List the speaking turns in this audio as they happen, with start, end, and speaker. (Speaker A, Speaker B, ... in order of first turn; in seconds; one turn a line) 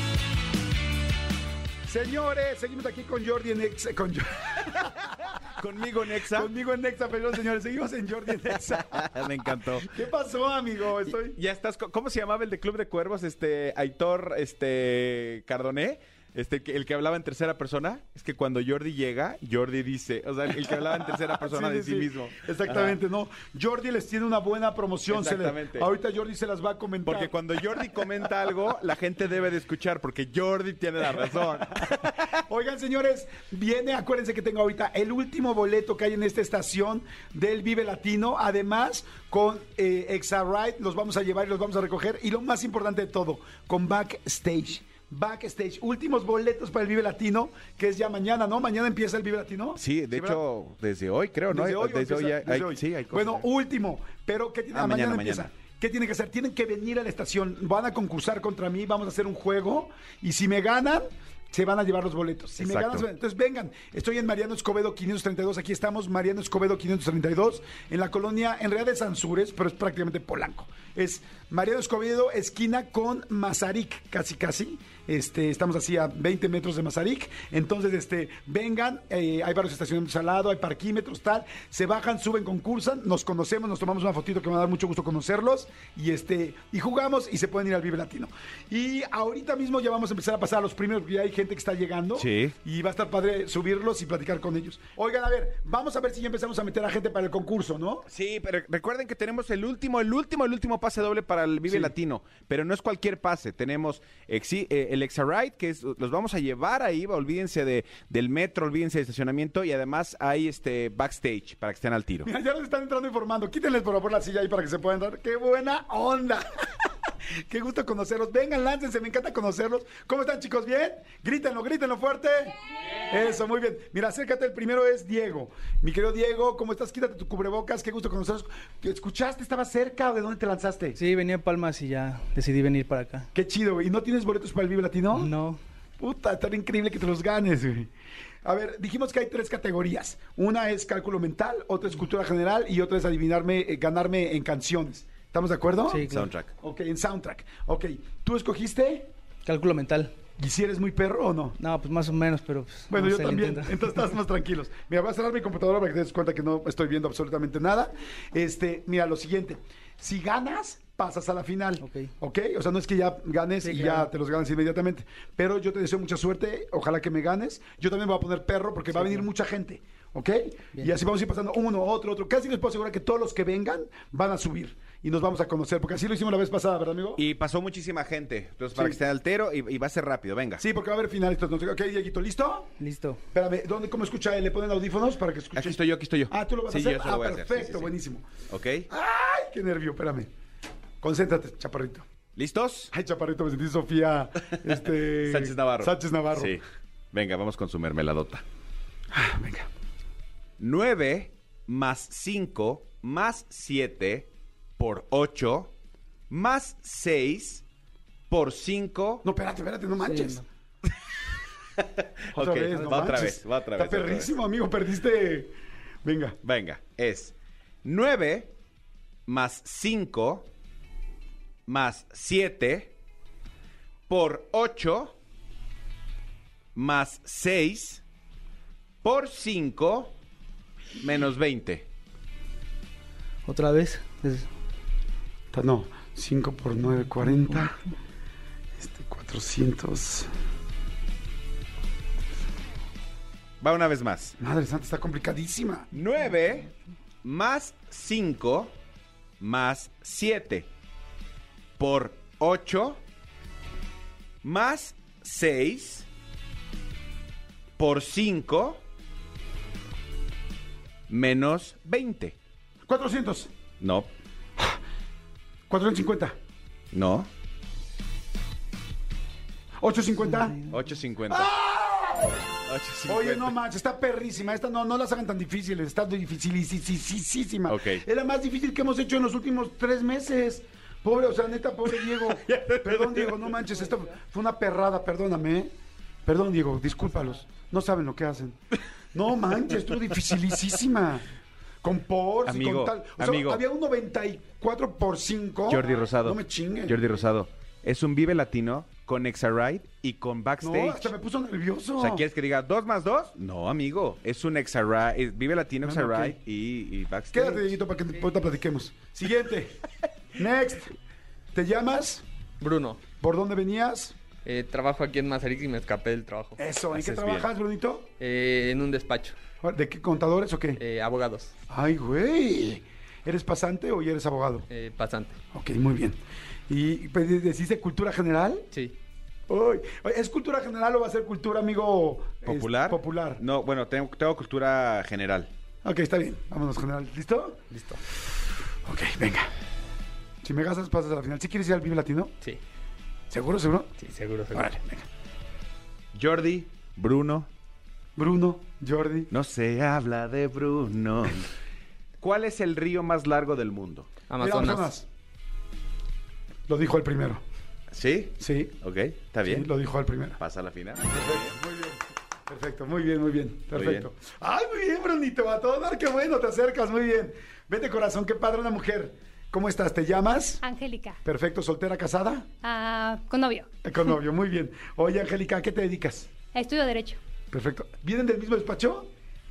Speaker A: 1.9-5.1
Speaker B: 5.6-6.5
Speaker A: 6.2-11.4
Speaker B: 8.9-9.9
Speaker B: 11.3-23.0
Speaker A: 20.9-28.5
Speaker B: 25.1-25.9
Speaker B: 27.1-32.2
Speaker A: 31.8-50.4
Speaker B: 49.8-53.5
Speaker A: 51.5-98.1
Speaker B: 54.7-55.5
Speaker B: 62.6-63.0
Speaker B: 92.2-92.5
Speaker B: 98.1-112.3
Speaker A: 101.7-101.9
Speaker A: 112.2-131.0
Speaker C: 131.0-133.3
Speaker A: 133.3-135.3
Speaker C: 135.1-135.6
Speaker A: 136.0-137.9
Speaker A: 138.4-149.1
Speaker C: 145.9-146.3
Speaker B: 146.1-146.5
Speaker C: 149.4-150.1
Speaker A: 150.4-151.6
Speaker C: 151.6-154.1
Speaker A: 152.9-177.2
Speaker C: 161.8-162.1
Speaker C: 163.6-164.1
Speaker C: 168.9-169.3
Speaker B: 177.2-180.6
Speaker A: 178.8-179.0
Speaker A: 180.6-182.7
Speaker C: 182.8-183.2
Speaker A: 183.3-188.3
Speaker B: 185.6-187.9
Speaker B: 188.5-188.9
Speaker A: 188.9-190.3
Speaker A: 191.0-192.1
Speaker B: 192.3-192.9
Speaker A: 192.9-196.6
Speaker B: 195.2-196.6
Speaker B: 197.1-198.4
Speaker A: 199.1-199.7
Speaker B: 200.6-205.7
Speaker B: 206.3-207.6
Speaker B: 208.3-209.2
Speaker A: 209.2-210.4
Speaker C: 210.0-210.4
Speaker B: 211.8-214.3
Speaker A: 212.3-216.4
Speaker B: 216.4-218.5
Speaker B: 219.3-220.5
Speaker B: 221.7-222.9
Speaker B: 224.1-225.2
Speaker B: 226.8-228.0
Speaker B: 229.0-230.1
Speaker B: 231.0-231.9
Speaker C: 233.5-234.5
Speaker A: 235.5-237.8
Speaker A: 238.8-240.3
Speaker B: 243.6-244.4
Speaker A: 244.4-245.9
Speaker B: 245.9-246.7
Speaker B: 247.2-248.7
Speaker B: 249.4-250.7
Speaker B: 251.8-253.0
Speaker B: 254.4-256.1
Speaker B: 257.8-258.8
Speaker B: 261.1-262.4
Speaker A: 262.9-263.5
Speaker B: 263.8-264.1
Speaker A: 265.7-266.4
Speaker B: 266.9-267.3
Speaker A: 269.8-270.6
Speaker B: 270.7-271.5
Speaker A: 271.3-272.4
Speaker B: 272.7-273.5
Speaker A: 273.1-285.7
Speaker B: 277.7-278.0
Speaker B: 282.0-283.6
Speaker A: 286.3-288.6
Speaker A: 289.1-291.3
Speaker A: 291.8-297.0
Speaker B: 292.4-293.6
Speaker B: 295.7-301.1
Speaker A: 300.6-302.3
Speaker B: 302.0-307.7
Speaker A: 305.8-306.4
Speaker A: 307.3-309.8
Speaker A: 310.4-311.0
Speaker A: 311.5-312.2
Speaker D: 312.6-313.0
Speaker A: 313.2-314.2
Speaker D: 314.4-316.6
Speaker A: 316.6-318.1
Speaker B: 316.9-317.5
Speaker D: 318.2-319.4
Speaker A: 319.6-320.8
Speaker D: 320.8-321.5
Speaker A: 321.7-324.7
Speaker D: 324.7-325.4
Speaker A: 325.5-328.7
Speaker A: 329.5-333.4
Speaker B: 332.4-335.5
Speaker A: 335.8-337.6
Speaker D: 337.7-338.0
Speaker A: 338.9-339.5
Speaker A: 340.4-342.3
Speaker A: 343.3-343.9
Speaker D: 344.0-344.7
Speaker A: 344.5-345.1
Speaker B: 346.1-347.5
Speaker A: 348.2-349.3
Speaker B: 349.3-351.5
Speaker B: 352.2-354.2
Speaker D: 354.3-354.9
Speaker A: 354.4-355.1
Speaker A: 356.7-357.4
Speaker B: 357.9-359.7
Speaker A: 358.4-358.7
Speaker A: 359.4-360.4
Speaker B: 360.4-361.5
Speaker A: 361.0-370.6
Speaker B: 363.7-364.1
Speaker E: 370.6-371.2
Speaker A: 371.2-372.5
Speaker E: 372.6-373.7
Speaker A: 373.8-376.3
Speaker E: 376.5-377.2
Speaker A: 377.5-379.1